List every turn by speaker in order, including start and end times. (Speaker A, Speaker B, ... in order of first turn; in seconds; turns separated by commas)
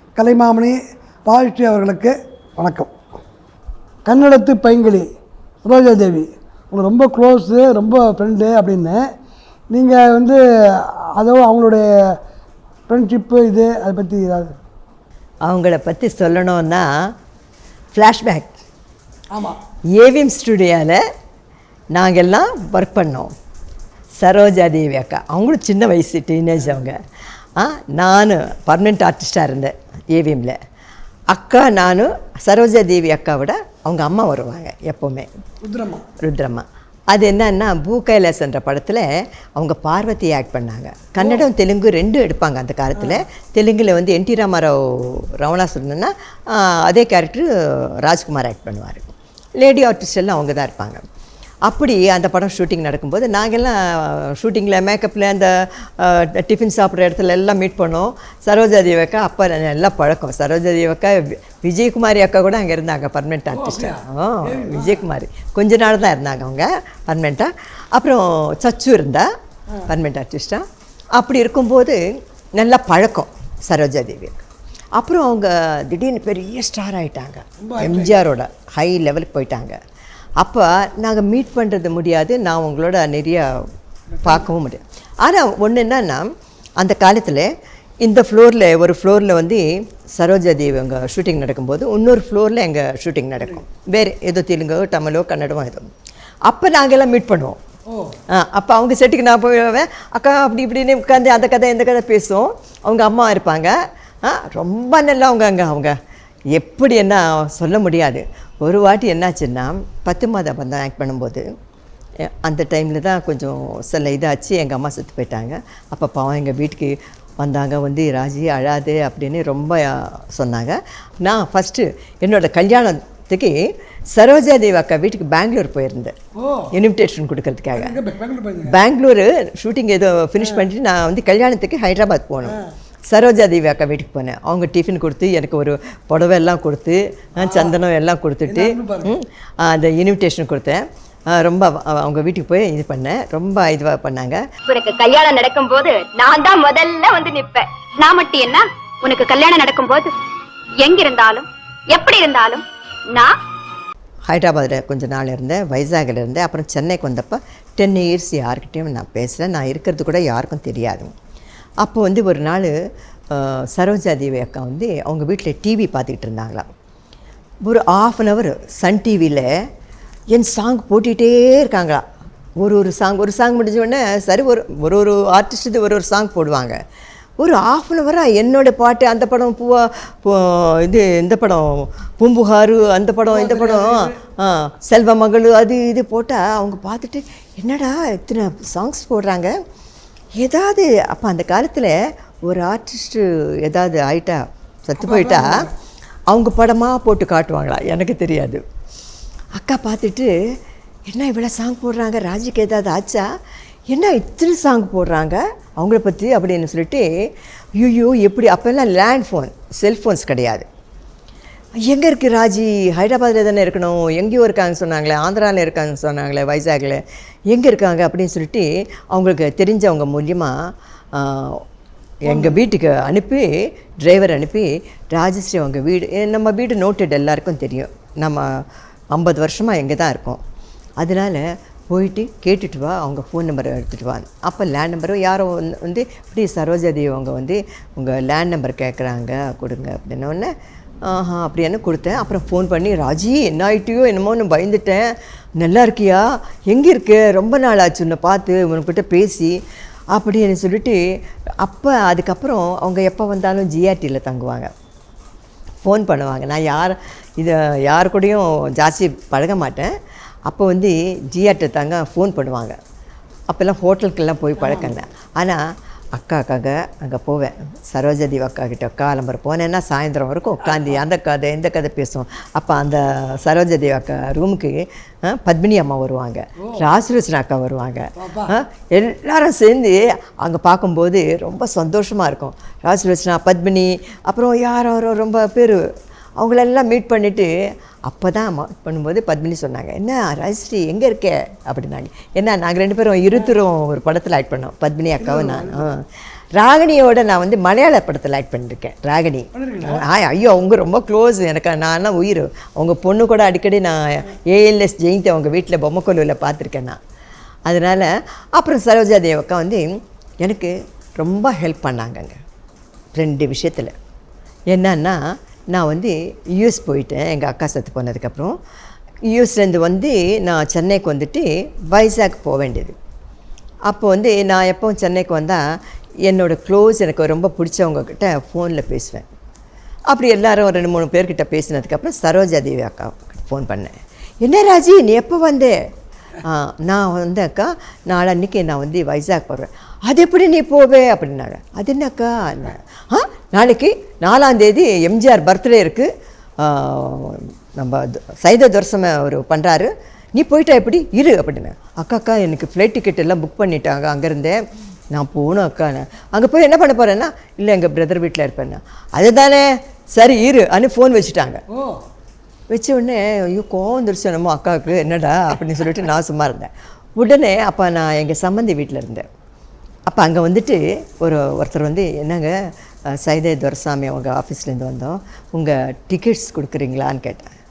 Speaker A: 0.2-2.9, Speaker A: 4.0-5.0, Speaker A: 5.6-9.0, Speaker A: 9.7-10.4, Speaker A: 11.2-11.8, Speaker A: 12.9-14.5, Speaker B: 15.4-16.9, Speaker B: 17.9-18.5, Speaker B: 20.0-21.0, Speaker B: 21.9-23.3, Speaker B: 24.2-27.0, Speaker B: 27.6-30.6, Speaker B: 31.3-35.3, Speaker A: 35.6-36.0, Speaker B: 36.2-39.0, Speaker B: 39.5-51.0, Speaker A: 41.2-41.4, Speaker B: 51.6-69.3, Speaker A: 63.5-65.0, Speaker B: 69.9-70.6, Speaker B: 71.2-72.0, Speaker B: 72.5-74.4, Speaker B: 75.0-79.8, Speaker A: 77.6-78.1, Speaker B: 80.4-83.5, Speaker B: 84.2-87.5, Speaker B: 88.0-95.9, Speaker B: 96.5-97.6, Speaker B: 98.3-105.9, Speaker B: 106.5-111.4, Speaker B: 112.4-123.5, Speaker B: 124.1-126.1, Speaker A: 126.4-126.7, Speaker B: 126.7-128.0, Speaker A: 127.7-128.8, Speaker B: 128.7-132.6, Speaker B: 133.1-144.4, Speaker A: 137.4-137.8, Speaker A: 138.5-139.1, Speaker C: 144.7-150.1, Speaker C: 150.8-153.3, Speaker B: 154.3-161.1, Speaker B: 161.8-162.7, Speaker B: 163.3-166.7, Speaker B: 167.6-169.5, Speaker B: 170.3-172.0, Speaker B: 172.6-176.8, Speaker B: 177.4-189.5, Speaker A: 183.3-184.2, Speaker B: 190.4-195.4, Speaker A: 195.0-195.7, Speaker B: 196.3-198.6, Speaker B: 199.6-200.3, Speaker B: 201.1-203.2, Speaker B: 203.9-207.0, Speaker B: 207.8-210.6, Speaker B: 211.8-220.5, Speaker B: 221.1-221.6, Speaker B: 222.2-223.4, Speaker A: 222.3-222.6, Speaker B: 224.0-230.4, Speaker B: 231.0-240.5, Speaker B: 241.0-249.5, Speaker B: 250.1-251.0, Speaker B: 251.6-254.7, Speaker B: 255.8-259.9, Speaker B: 260.5-262.8, Speaker B: 263.5-265.6, Speaker A: 264.6-264.9, Speaker B: 266.1-285.8, Speaker A: 270.6-271.0, Speaker A: 278.2-278.5, Speaker B: 286.4-287.5, Speaker B: 288.1-296.0, Speaker A: 295.2-295.8, Speaker B: 296.6-307.0, Speaker A: 299.6-300.0, Speaker B: 307.7-309.8, Speaker B: 310.4-312.4, Speaker B: 313.1-313.9, Speaker B: 314.7-315.2, Speaker B: 315.7-318.6, Speaker B: 319.3-322.9, Speaker B: 323.9-325.6, Speaker B: 326.2-329.3, Speaker B: 330.1-335.8, Speaker B: 336.4-346.1, Speaker B: 346.6-354.6, Speaker B: 355.1-361.6, Speaker B: 362.7-369.2, Speaker B: 370.1-372.5, Speaker B: 373.2-377.5